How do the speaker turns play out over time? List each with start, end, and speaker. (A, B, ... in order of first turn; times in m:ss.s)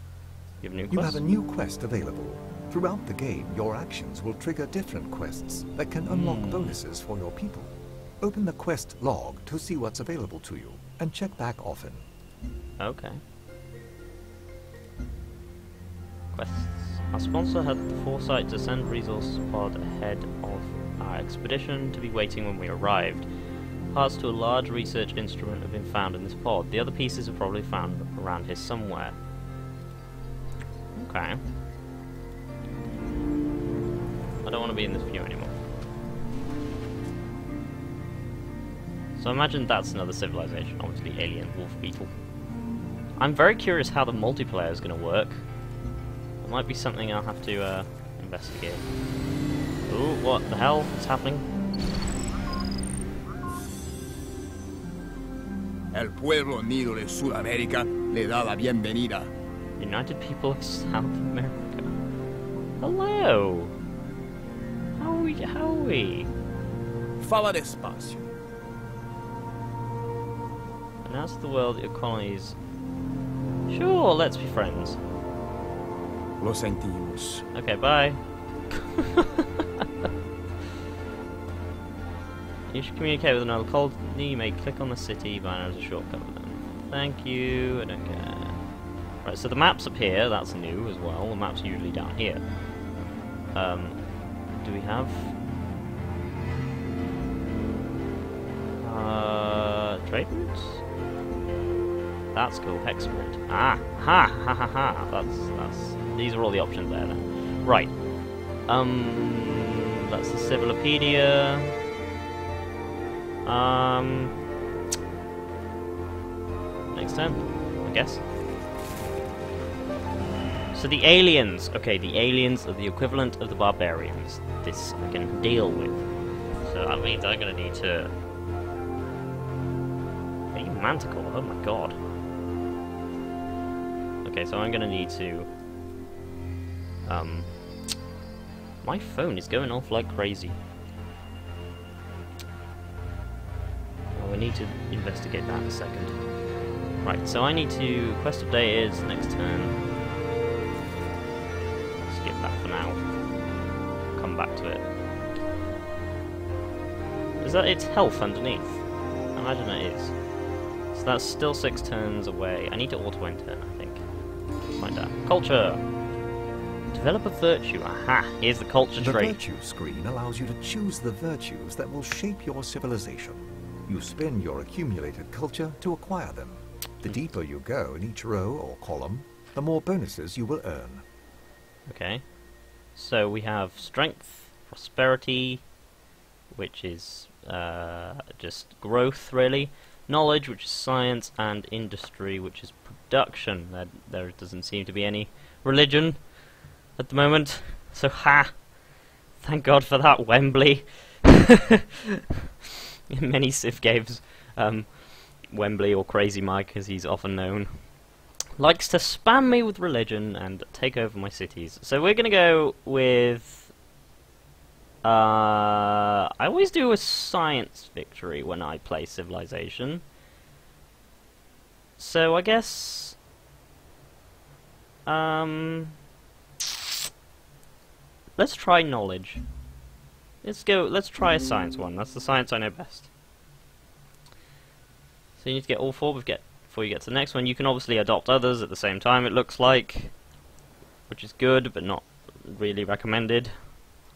0:00.6-0:01.2 A
0:00.9-0:12.1 B
0:06.1-0:06.8 A
0:12.8-0:13.2 A
0:16.3-0:23.3 A
0:23.9-0:29.2 A
0:31.0-0:31.4 A
0:34.4-0:35.6 A
0:39.2-0:42.1 A
0:43.2-0:45.4 A
0:46.4-0:48.9 A
0:49.9-0:51.5 A
0:55.9-0:59.3 C
0:59.8-1:01.9 A
1:02.8-1:03.7 A
1:05.0-1:06.3 A
1:07.2-1:08.3 C
1:11.0-1:12.6 A
1:13.7-1:15.0 A
1:16.4-1:17.5 C
1:17.5-1:19.9 A
1:22.7-1:28.6 A
1:29.2-1:32.4 A
1:33.5-1:34.0 A
1:34.6-1:35.4 A
1:38.8-1:40.8 A
1:42.3-1:48.0 A
1:48.7-1:51.8 A
1:53.4-1:54.3 A
1:56.9-1:58.2 A
2:00.7-2:06.0 A
2:06.6-2:08.1 A
2:10.5-2:12.0 A
2:14.2-2:15.5 A
2:17.0-2:17.6 A
2:18.8-2:20.6 A
2:24.1-2:26.2 A
2:27.0-2:29.8 A
2:32.0-2:33.0 A
2:34.2-2:34.9 A
2:37.4-2:40.2 A
2:40.9-2:44.0 A
2:44.7-2:45.8 A
2:46.9-2:49.4 A
2:49.0-3:01.0 B
3:01.9-3:02.3 A
3:02.9-3:05.7 A
3:06.5-3:16.3 A
3:17.0-3:18.7 A
3:19.4-3:21.8 A
3:23.1-3:27.9 A
3:28.6-3:33.7 A
3:35.0-3:40.0 A
3:42.0-3:43.2 A
3:45.1-3:46.0 A
3:48.4-3:49.4 A
3:50.4-3:53.1 A
3:55.4-4:00.2 A
4:01.1-4:03.5 A